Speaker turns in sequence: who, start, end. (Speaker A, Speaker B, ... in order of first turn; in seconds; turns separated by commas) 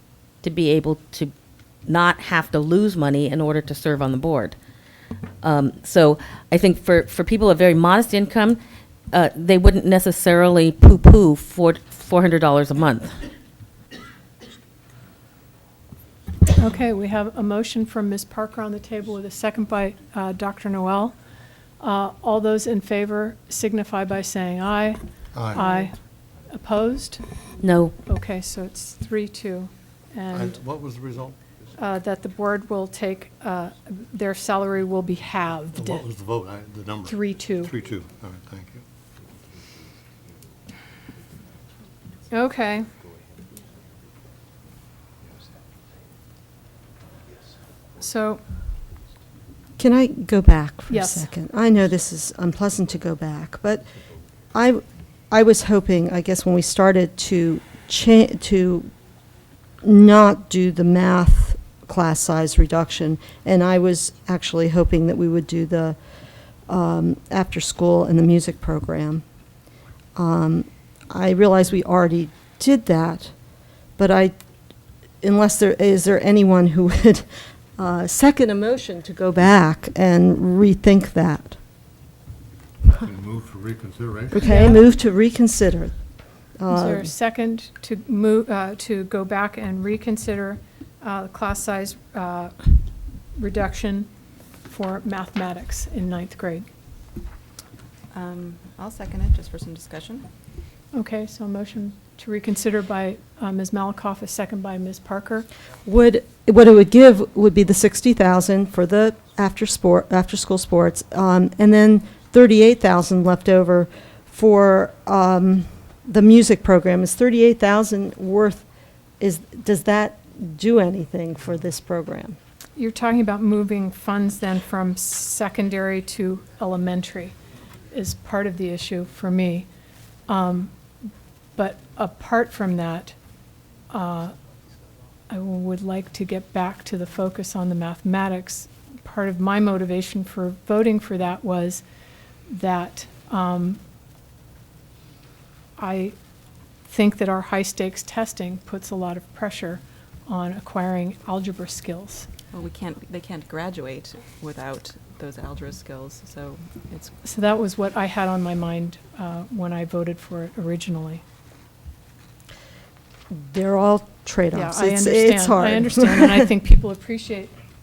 Speaker A: 0.4-1.3, Speaker A: 1.9-4.5, Speaker A: 5.4-8.6, Speaker A: 9.1-13.2, Speaker B: 16.6-21.2, Speaker B: 21.8-26.0, Speaker C: 25.3-25.7, Speaker B: 26.5-27.2, Speaker A: 27.6-27.9, Speaker B: 28.1-30.6, Speaker C: 30.3-31.4, Speaker B: 31.8-36.1, Speaker C: 35.8-38.8, Speaker B: 37.0-37.7, Speaker B: 42.3-42.9, Speaker B: 48.0-48.4, Speaker D: 49.8-53.9, Speaker B: 50.9-51.3, Speaker D: 54.5-58.9, Speaker D: 59.8-66.0, Speaker D: 66.7-69.2, Speaker D: 70.2-73.3, Speaker D: 74.0-74.3, Speaker D: 75.2-77.3, Speaker D: 77.8-81.6, Speaker C: 83.0-84.5, Speaker D: 84.3-85.9, Speaker B: 84.3-84.8, Speaker D: 86.6-87.1, Speaker B: 86.7-92.7, Speaker B: 93.4-94.1, Speaker B: 94.7-96.7, Speaker E: 98.1-100.3, Speaker B: 100.9-105.5, Speaker D: 105.8-118.6, Speaker D: 119.2-122.4, Speaker B: 122.8-127.3, Speaker B: 127.9-129.7, Speaker B: 130.3-130.7, Speaker B: 131.6-133.2, Speaker B: 133.9-134.3, Speaker B: 135.3-141.8, Speaker B: 142.5-143.8, Speaker B: 145.8-146.2, Speaker B: 146.9-152.3, Speaker E: 152.5-157.1, Speaker B: 157.2-161.2, Speaker D: 163.3-166.5, Speaker B: 164.5-167.5